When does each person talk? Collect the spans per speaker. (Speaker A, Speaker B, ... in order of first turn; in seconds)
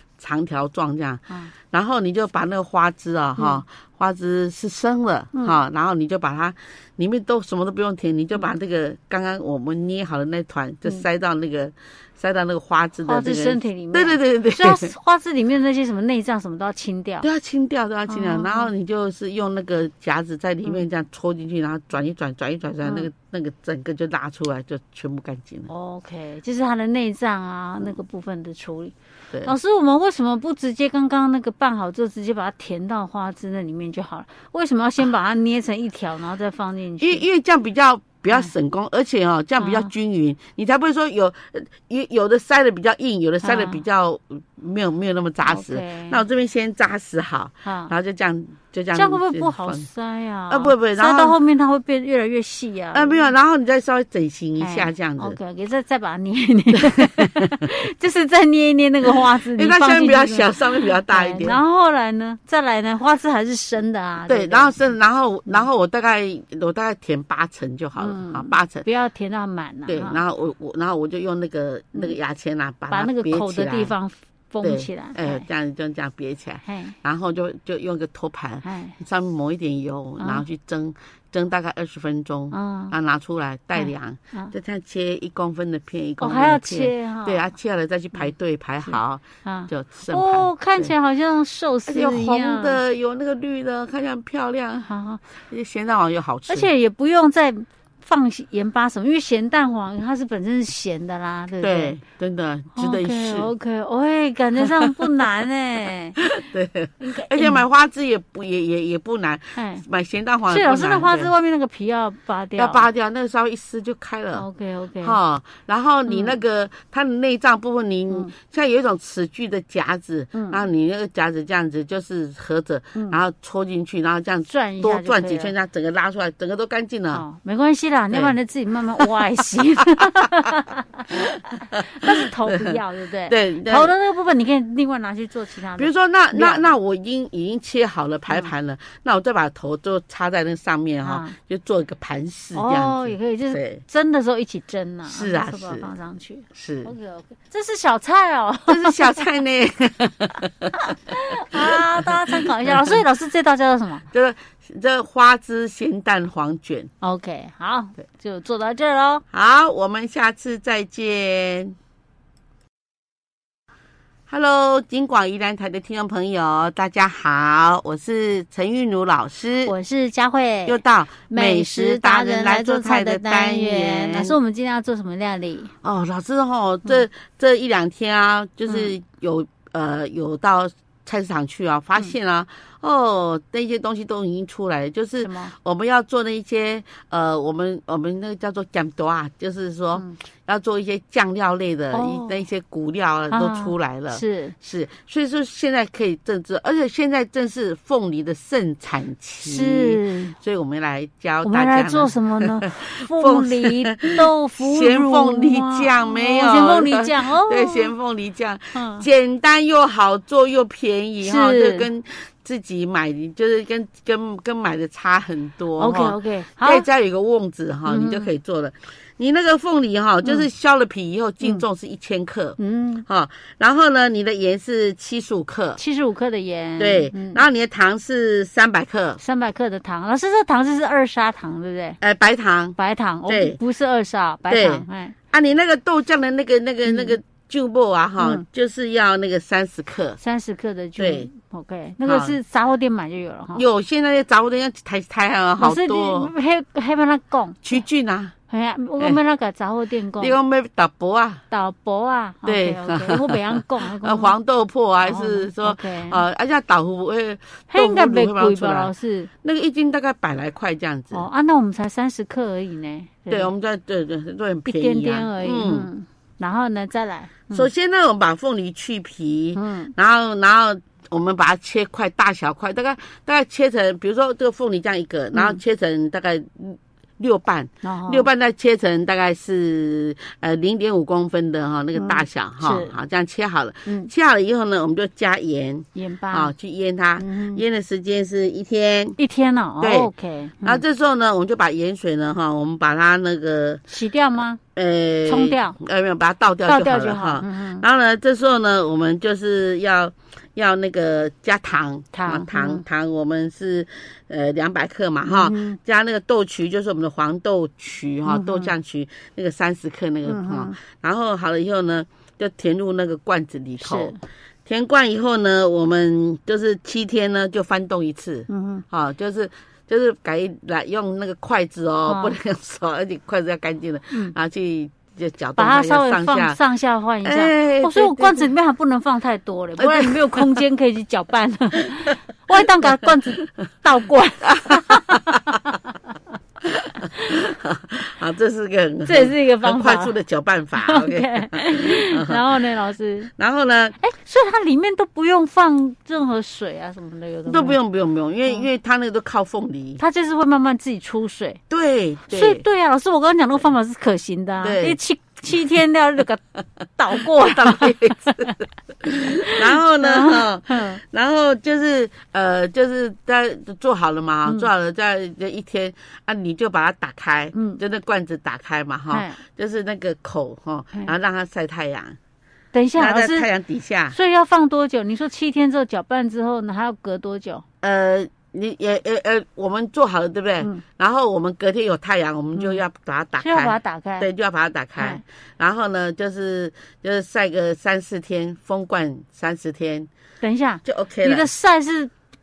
Speaker A: 0.2-14.9, 17.2-25.7, 37.0-49.9, 50.5-51.4, 52.9-55.4, 59.5-61.6, 64.3-68.9, 69.9-74.0, 74.6-90.9, 91.9-94.9, 95.4-96.7, 101.6-103.5, 106.2-111.3, 112.6-114.5, 115.0-127.2, 131.1-133.9, 135.8-143.8, 145.1-145.9, 146.5-146.9, 148.7-150.7, 151.5-153.0, 154.1-156.9, 159.3-161.8, 164.3-169.7, 170.7-174.4, 175.8-225.8, 226.8-229.2, 232.0-233.6, 234.5-240.2, 241.0-241.3, 242.1-242.4, 243.6-246.3, 247.6-248.3, 250.2-251.4, 252.4-258.9, 259.4-261.2, 263.3-265.9, 267.5-289.2, 289.8-290.1, 290.6-293.8, 294.8-326.6, 327.2-328.5, 329.8-330.6, 334.6-335.2, 336.6-342.4, 343.4-344.0, 347.5-350.0, 351.7-352.6, 354.6-355.0, 357.2-372.2, 373.0-374.2, 377.8-390.1, 390.9-391.5
Speaker B: 3.4-3.6, 13.1-17.3, 18.1-18.7, 22.8-23.1, 25.7-37.2, 39.6-39.9, 43.4-43.8, 45.4-46.2, 47.6-47.9, 48.9-53.3, 54.6-64.8, 68.0-70.2, 72.9-75.5, 76.7-77.0, 78.6-79.0, 82.5-83.0, 83.8-84.5, 86.2-87.4, 88.8-92.8, 94.9-95.2, 96.5-102.0, 102.7-106.2, 107.0-107.6, 109.5-109.8, 110.5-112.9, 114.3-115.2, 116.1-116.4, 120.3-120.7, 124.5-125.5, 127.1-136.7, 141.0-141.3, 142.6-149.2, 150.7-154.1, 157.0-159.2, 169.7-175.7, 185.2-185.5, 191.9-192.4, 193.3-194.6, 199.4-200.4, 201.4-207.9, 208.7-209.1, 211.2-211.9, 215.8-216.9, 217.9-218.3, 222.6-223.1, 225.8-227.4, 229.2-232.0, 232.8-235.1, 236.8-237.2, 238.2-238.4, 240.2-243.6, 245.6-247.8, 248.5-250.4, 251.5-254.3, 255.0-256.2, 257.7-259.3, 261.1-263.5, 264.7-267.7, 269.6-269.9, 275.3-275.6, 277.8-278.3, 281.9-283.0, 283.9-284.1, 285.9-286.5, 287.2-287.6, 289.2-290.8, 293.9-294.6, 295.3-295.8, 296.7-297.8, 302.1-302.8, 305.2-305.8, 308.3-308.7, 310.2-310.8, 313.8-314.2, 318.5-318.9, 322.1-322.4, 325.6-335.8, 339.1-340.1, 340.8-343.3, 344.0-347.8, 350.0-351.6, 352.3-356.4, 357.0-358.6, 359.1-361.0, 367.5-367.8, 369.1-369.4, 372.7-373.5, 374.1-377.6, 382.6-382.8, 383.4-384.3, 385.0-385.2, 390.4-392.1